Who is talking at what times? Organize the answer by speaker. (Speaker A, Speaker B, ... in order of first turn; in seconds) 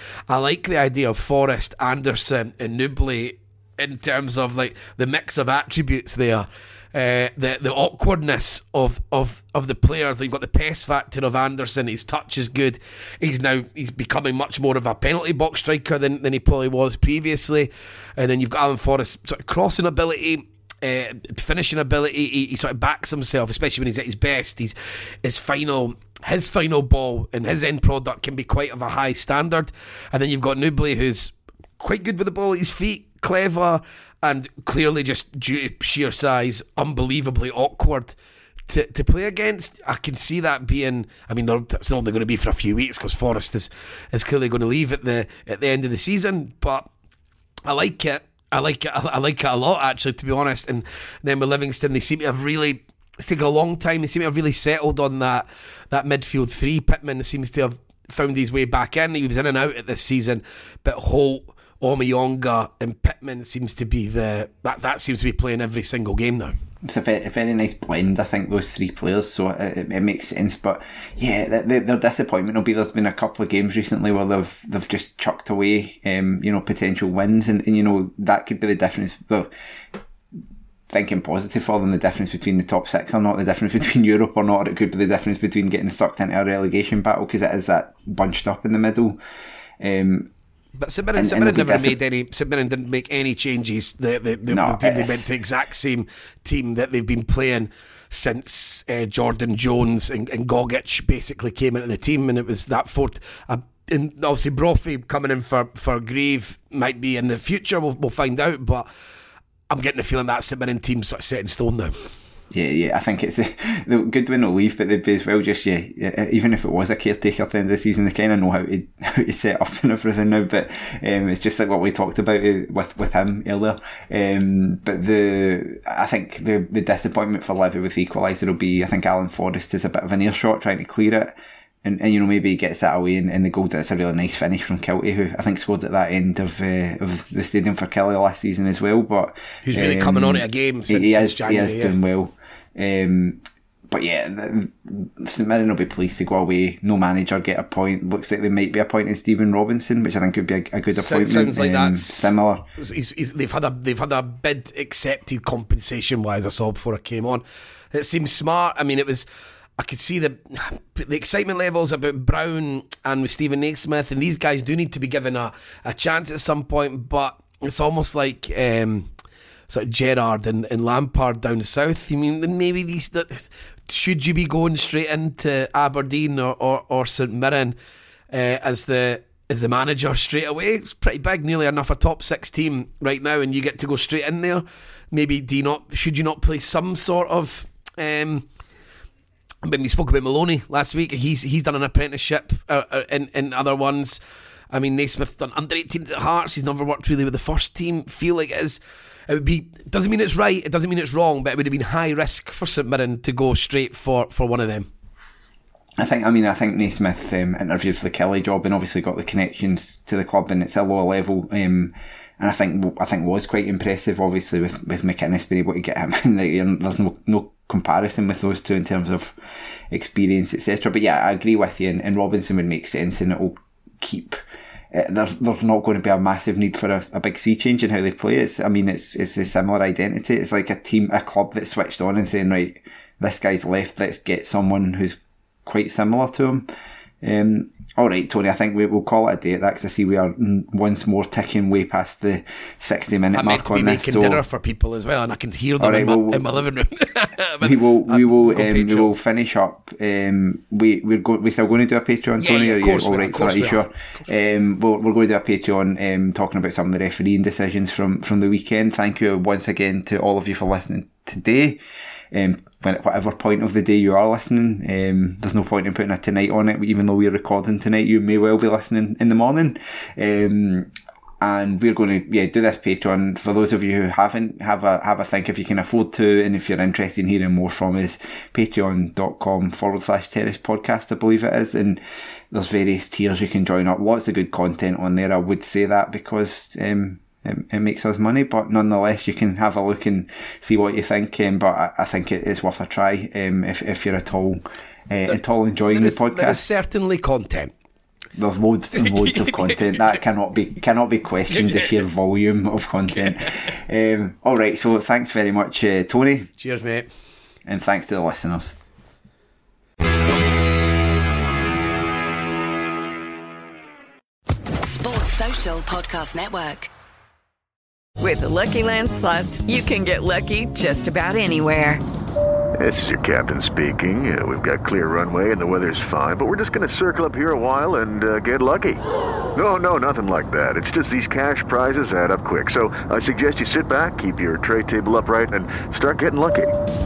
Speaker A: 0.3-38.1, 38.7-46.9, 47.7-66.5, 90.8-108.9, 109.7-111.9, 139.7-142.0, 151.0-159.3, 159.8-169.1, 169.7-177.8, 178.3-188.5, 189.6-194.2, 194.7-204.9, 243.3-249.1, 252.4-253.8, 295.9-297.7, 299.0-300.1, 301.5-302.0, 303.3-303.5, 306.6-307.1
Speaker B: 66.8-79.5, 80.9-89.2, 89.8-90.3, 91.2-92.0, 94.5-95.3, 112.5-152.6, 206.0-219.4, 219.9-224.4, 224.9-236.7, 237.2-244.4, 245.8-246.5, 247.6-261.8, 262.3-270.9, 271.4-296.7, 298.4-306.5, 307.7-308.8
Speaker C: 314.8-316.9
Speaker D: 318.2-322.0
Speaker E: 322.8-329.0, 329.6-336.8